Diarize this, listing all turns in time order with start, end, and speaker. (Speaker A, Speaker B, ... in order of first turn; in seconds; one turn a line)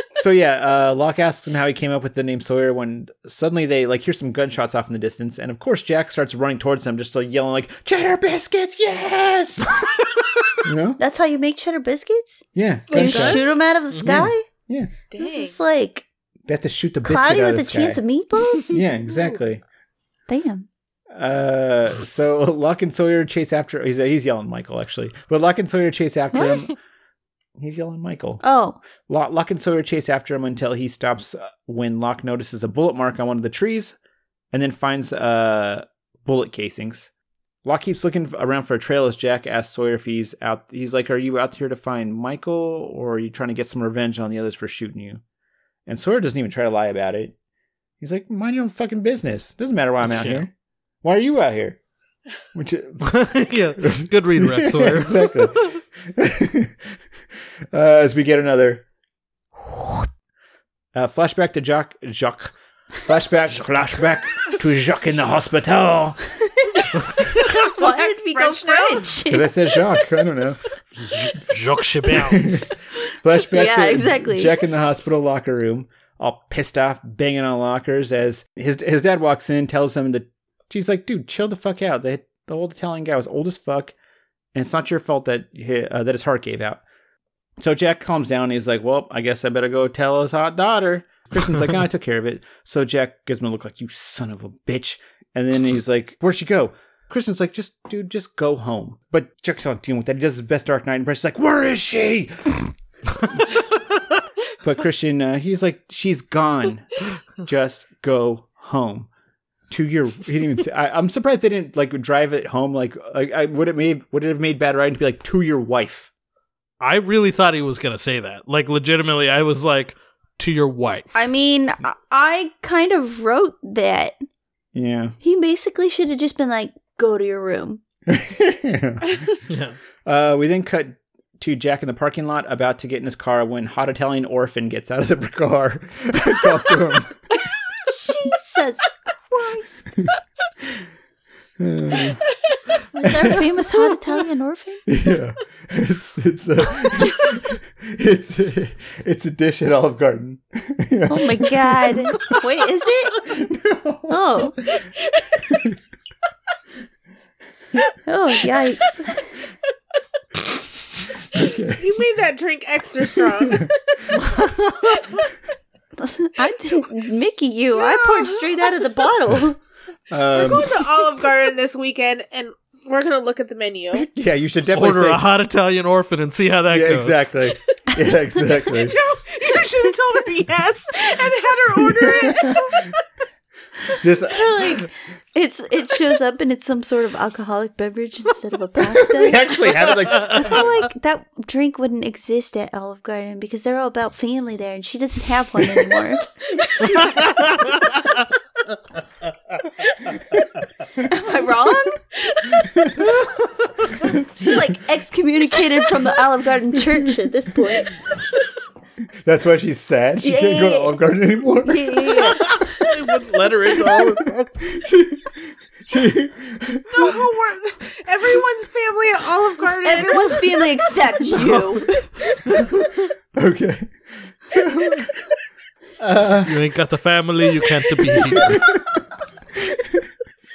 Speaker A: 0.1-9.9
Speaker A: 10.6-11.0
Speaker B: 11.0-14.4
Speaker A: 12.5-14.9
Speaker C: 12.9-13.5
Speaker D: 13.9-14.2
Speaker C: 15.1-15.6
Speaker B: 15.2-16.0
Speaker A: 16.5-18.0
Speaker B: 17.0-18.8
Speaker A: 18.7-19.6
Speaker B: 20.3-20.6
Speaker A: 21.1-26.7
Speaker B: 26.3-26.6
Speaker A: 27.6-28.4
Speaker B: 28.4-28.8
Speaker A: 29.1-34.0
Speaker A: 34.5-37.1
Speaker A: 37.6-45.2
Speaker A: 45.9-47.3
Speaker A: 48.0-50.5
Speaker D: 50.0-50.4
Speaker A: 51.0-51.8
Speaker A: 52.5-53.2
Speaker D: 53.0-55.7
Speaker A: 53.8-57.0
Speaker A: 57.7-58.8
Speaker A: 60.9-66.2
Speaker B: 66.4-70.0
Speaker C: 67.4-69.2
Speaker A: 69.2-70.6
Speaker D: 71.0-72.5
Speaker A: 72.2-83.9
Speaker B: 73.4-74.5
Speaker A: 84.5-86.8
Speaker A: 87.6-102.7
Speaker A: 104.6-109.1
Speaker A: 109.7-116.1
Speaker D: 116.8-121.2
Speaker B: 121.1-124.2
Speaker A: 124.7-125.2
Speaker B: 125.2-127.8
Speaker A: 128.1-129.3
Speaker D: 129.5-129.8
Speaker A: 130.0-137.3
Speaker B: 137.8-140.0
Speaker A: 141.6-142.2
Speaker C: 141.9-142.6
Speaker B: 142.9-144.8
Speaker A: 143.0-143.5
Speaker C: 143.8-144.1
Speaker A: 144.9-152.3
Speaker B: 151.1-153.2
Speaker A: 153.2-154.8
Speaker B: 154.1-154.6
Speaker C: 154.7-155.5
Speaker A: 155.4-155.8
Speaker B: 158.0-159.3
Speaker C: 158.4-158.7
Speaker A: 161.3-161.8
Speaker C: 161.3-165.3
Speaker A: 163.2-163.7
Speaker D: 164.2-164.5
Speaker B: 166.0-169.6
Speaker C: 167.7-169.1
Speaker A: 170.1-170.7
Speaker C: 170.3-174.1
Speaker A: 173.9-175.2
Speaker D: 174.7-177.3
Speaker A: 176.7-179.0
Speaker C: 178.5-183.0
Speaker A: 182.0-182.6
Speaker A: 183.9-184.9
Speaker B: 184.3-197.0
Speaker A: 189.1-190.7
Speaker C: 196.5-197.3
Speaker D: 197.0-198.2
Speaker B: 201.0-202.0
Speaker C: 202.1-202.7
Speaker A: 202.6-203.3
Speaker A: 203.9-204.8
Speaker B: 204.1-208.0
Speaker A: 209.2-212.4
Speaker B: 210.2-211.0
Speaker B: 211.6-212.6
Speaker D: 212.3-214.5
Speaker A: 213.8-217.2
Speaker C: 216.9-220.9
Speaker B: 219.8-222.1
Speaker D: 221.3-221.8
Speaker D: 222.4-222.7
Speaker A: 223.3-225.3
Speaker A: 226.0-226.6
Speaker D: 226.4-228.6
Speaker A: 228.3-228.8
Speaker A: 229.6-230.1